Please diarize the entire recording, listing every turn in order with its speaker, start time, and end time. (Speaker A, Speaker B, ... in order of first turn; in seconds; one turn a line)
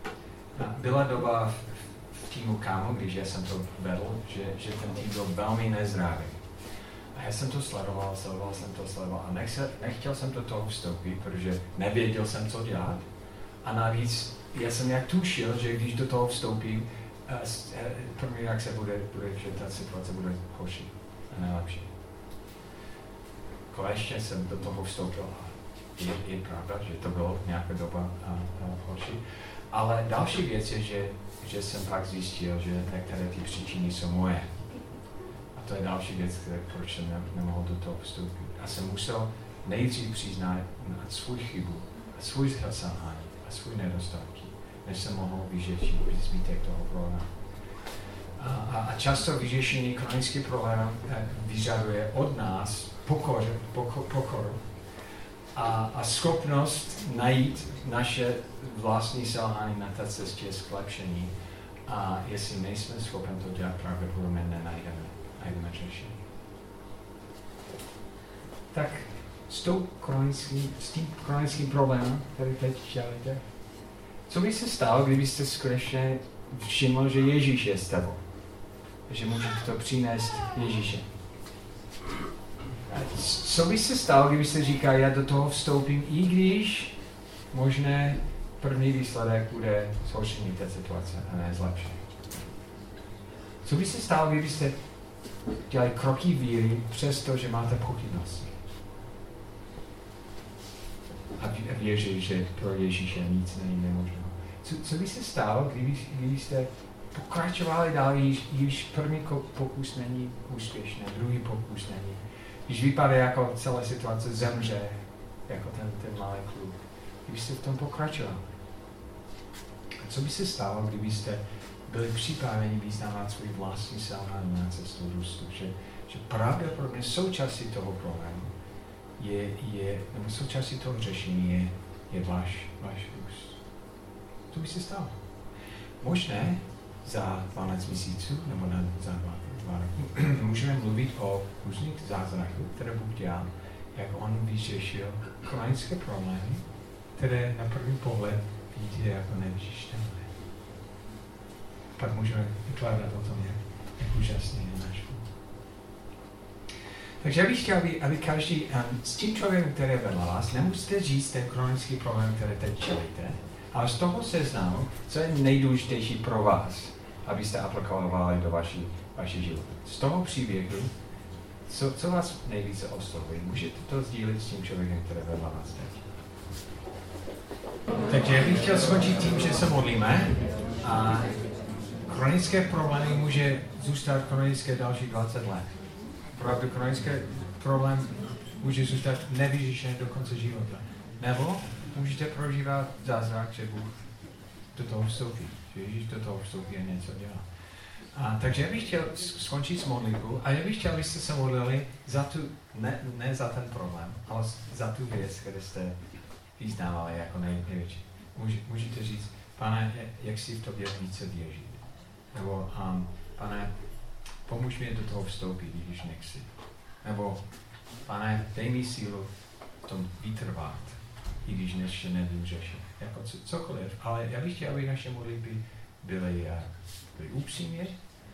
Speaker A: 0.5-6.4
Speaker A: 7.1-13.1
Speaker A: 13.6-21.9
Speaker A: 23.7-34.8
Speaker A: 35.5-47.4
Speaker A: 48.4-54.7
Speaker A: 55.5-61.3
Speaker A: 61.9-66.2
Speaker A: 68.7-73.5
Speaker A: 74.3-78.2
Speaker A: 79.1-81.1
Speaker A: 82.9-87.0
Speaker A: 87.5-92.0
Speaker A: 93.6-94.8
Speaker A: 95.7-98.5
Speaker A: 101.4-118.5
Speaker A: 120.0-128.5
Speaker A: 129.2-133.6
Speaker A: 134.5-135.2
Speaker A: 136.0-146.7
Speaker A: 147.2-150.3
Speaker A: 152.0-155.3
Speaker A: 157.2-170.9
Speaker A: 171.7-176.1
Speaker A: 178.1-181.4
Speaker A: 182.1-185.8
Speaker A: 186.3-194.0
Speaker A: 194.7-206.0
Speaker A: 206.6-213.7
Speaker A: 214.4-216.5
Speaker A: 217.0-217.5
Speaker A: 218.0-227.9